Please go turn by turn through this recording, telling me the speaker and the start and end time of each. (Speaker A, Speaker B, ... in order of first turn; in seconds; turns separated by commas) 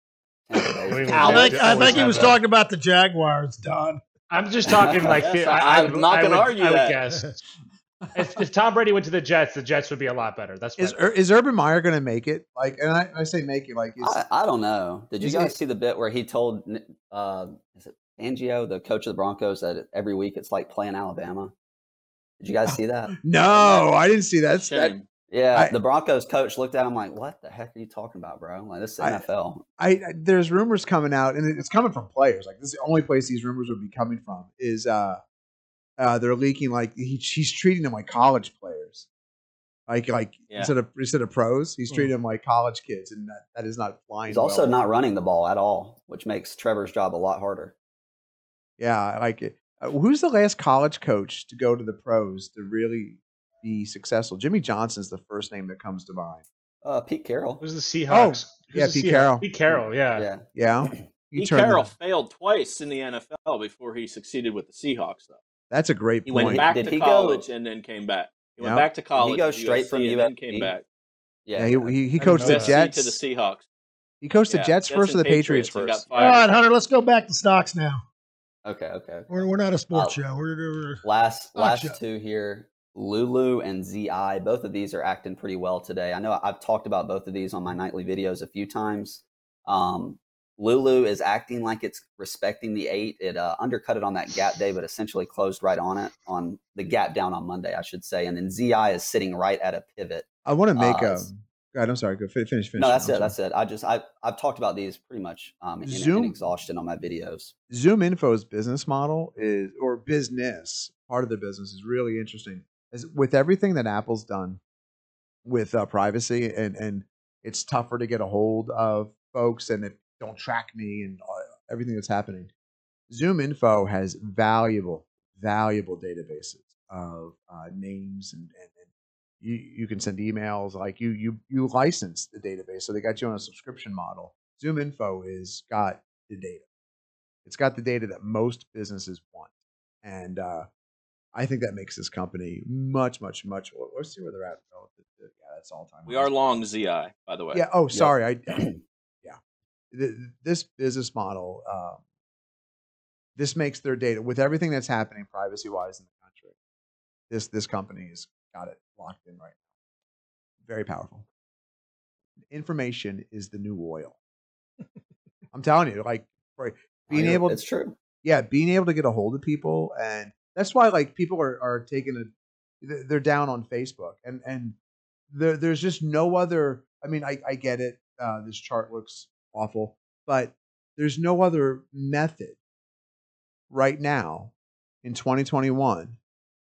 Speaker A: 0.5-2.3, Speaker B: 0.9-2.4, Speaker C: 1.1-4.0, Speaker D: 1.5-2.2, Speaker B: 4.3-7.4, Speaker A: 4.7-5.2, Speaker E: 5.2-7.0, Speaker B: 8.1-11.0, Speaker D: 10.8-14.2, Speaker A: 14.0-21.5, Speaker D: 15.2-15.5, Speaker A: 22.4-23.8, Speaker D: 22.6-24.9, Speaker E: 24.5-25.0, Speaker A: 25.3-29.6, Speaker D: 29.8-35.2, Speaker D: 36.0-39.0, Speaker D: 39.9-44.8, Speaker A: 44.3-47.7, Speaker D: 48.8-56.4, Speaker A: 56.8-57.6, Speaker B: 57.6-60.3, Speaker D: 58.1-59.5, Speaker A: 60.1-61.0, Speaker D: 60.5-61.9, Speaker E: 61.3-65.4, Speaker D: 65.7-66.7, Speaker E: 66.3-70.8, Speaker A: 66.4-67.5, Speaker D: 68.6-68.9, Speaker A: 69.2-70.7, Speaker A: 71.5-72.0, Speaker D: 71.5-73.2, Speaker E: 72.2-73.6, Speaker B: 72.4-72.7, Speaker D: 74.2-76.4, Speaker E: 74.5-76.6, Speaker C: 76.1-78.0, Speaker A: 78.6-79.3, Speaker C: 79.3-81.0, Speaker A: 79.9-80.2, Speaker A: 81.0-101.3, Speaker C: 81.5-82.0, Speaker D: 100.4-103.3, Speaker A: 102.8-107.5, Speaker D: 105.8-106.3, Speaker D: 107.7-114.6, Speaker D: 115.4-122.5, Speaker D: 123.1-128.8, Speaker D: 129.4-136.6, Speaker D: 137.4-139.5, Speaker D: 140.0-140.7, Speaker D: 141.3-146.3, Speaker E: 146.1-147.7, Speaker D: 147.5-148.7, Speaker A: 147.9-148.8, Speaker D: 149.9-152.0, Speaker D: 153.3-156.5, Speaker D: 157.3-159.6, Speaker D: 160.6-161.2, Speaker D: 162.5-164.2, Speaker D: 165.5-167.6, Speaker A: 167.1-167.9, Speaker D: 168.2-174.8, Speaker D: 175.3-182.6, Speaker D: 183.7-184.5, Speaker D: 185.0-186.2